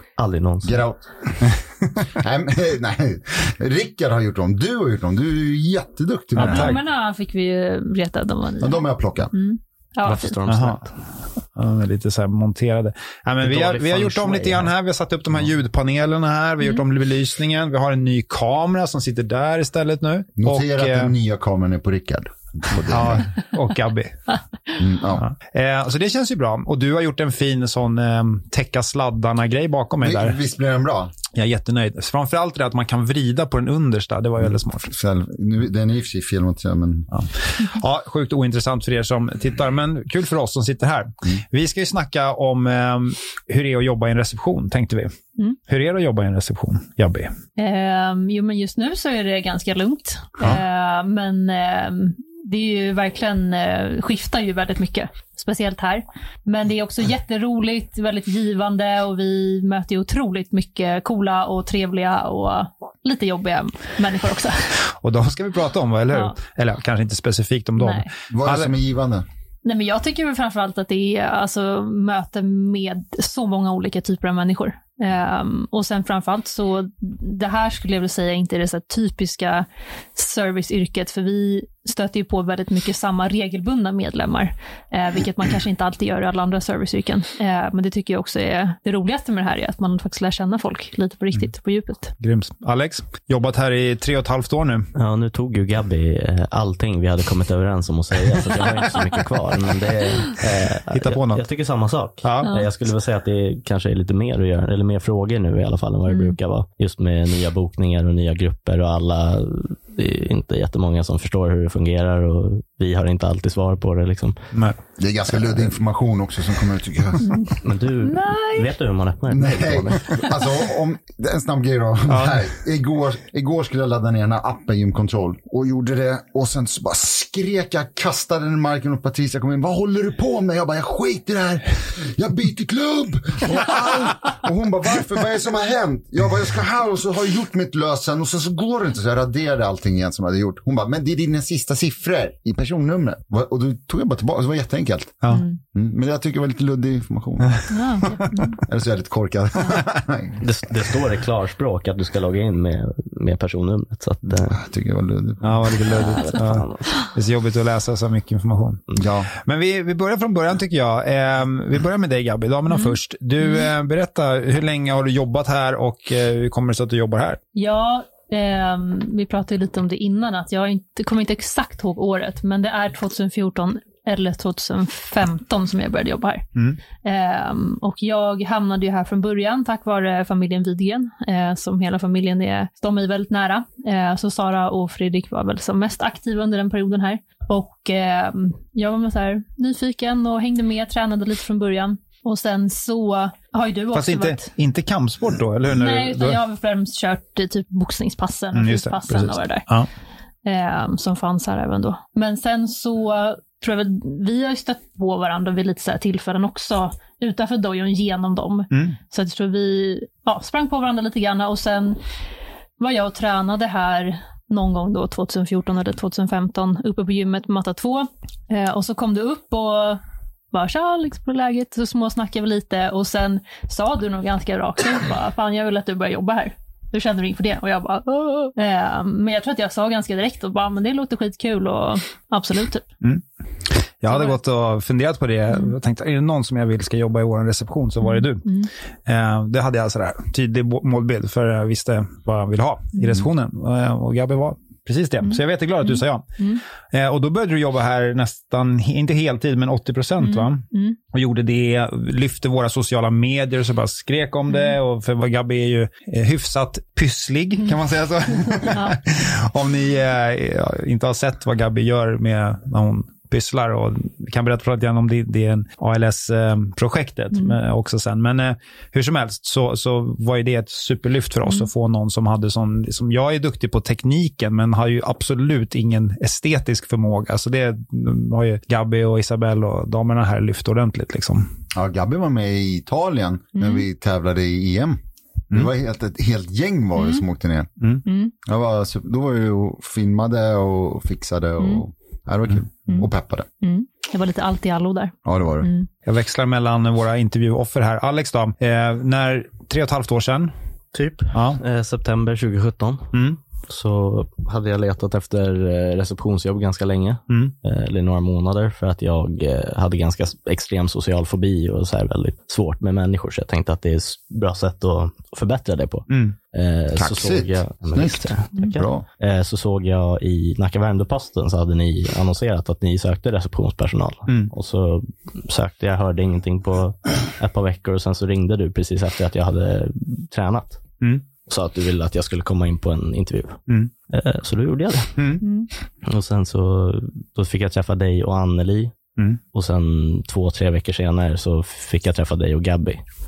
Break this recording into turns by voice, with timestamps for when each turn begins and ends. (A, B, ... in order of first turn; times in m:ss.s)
0:00.2-0:00.8 A
0:00.6-0:06.7 B
0:06.4-0:06.8 C
0:06.4-0:10.4 D
0:08.6-0:09.3 B
0:10.0-0:10.9 A
0:10.5-0:10.8 C
0:11.6-0:21.1 C
0:13.4-0:14.7 A
0:20.4-0:23.3 B
0:22.8-0:24.4 C
0:24.8-0:25.3 B
0:25.2-0:30.4 C
0:30.0-0:31.2 B
0:31.3-0:34.9 C
0:34.4-0:37.1 B
0:37.1-0:47.3 C
0:47.6-1:04.7 D
1:05.0-1:08.7 C
1:07.8-1:08.1 D
1:08.3-1:09.2 B
1:09.6-1:32.1 D
1:32.2-1:34.9 C
1:35.0-1:54.3 A
1:40.9-1:41.4 C
1:42.2-1:42.5 C
1:42.4-1:42.7 D
1:46.1-1:46.4 D
1:55.0-1:57.3 B
1:57.3-1:58.7 D
1:57.6-2:00.1 A
1:59.3-2:25.2 B
2:02.1-2:02.4 C
2:25.3-2:25.6 D
2:25.7-2:30.4 B
2:27.7-2:28.6 D
2:30.4-2:34.6 A
2:34.3-2:36.0 B
2:35.4-2:47.4 C
2:35.8-2:36.9 A
2:39.0-2:39.3 B
2:42.7-2:43.7 D
2:47.6-2:56.5 D
2:57.0-3:14.5 D
3:13.9-3:16.4 C
3:15.7-3:19.7 D
3:18.5-3:19.9 C
3:20.4-3:32.0 D
3:28.7-3:29.0 C
3:32.8-3:52.9 D
3:53.0-4:41.6 C
3:58.0-3:58.7 D
4:05.2-4:06.6 D
4:10.2-4:11.0 D
4:18.7-4:19.0 D
4:41.7-4:45.0 B
4:43.6-4:43.9 D
4:45.5-4:47.7 B
4:47.0-4:47.2 D
4:48.0-4:48.3 D
4:48.4-4:53.5 B
4:53.6-4:55.9 D
4:55.2-4:55.7 B
4:56.0-5:00.5 C
5:00.9-5:03.1 A
5:01.3-5:01.6 C
5:03.1-5:03.4 C
5:03.7-5:30.8 A
5:16.1-5:16.4 C
5:17.0-5:19.0 B
5:31.5-5:35.2 A
5:35.2-5:35.4 C
5:35.4-5:35.7 D
5:36.0-5:38.9 A
5:39.5-5:43.0 A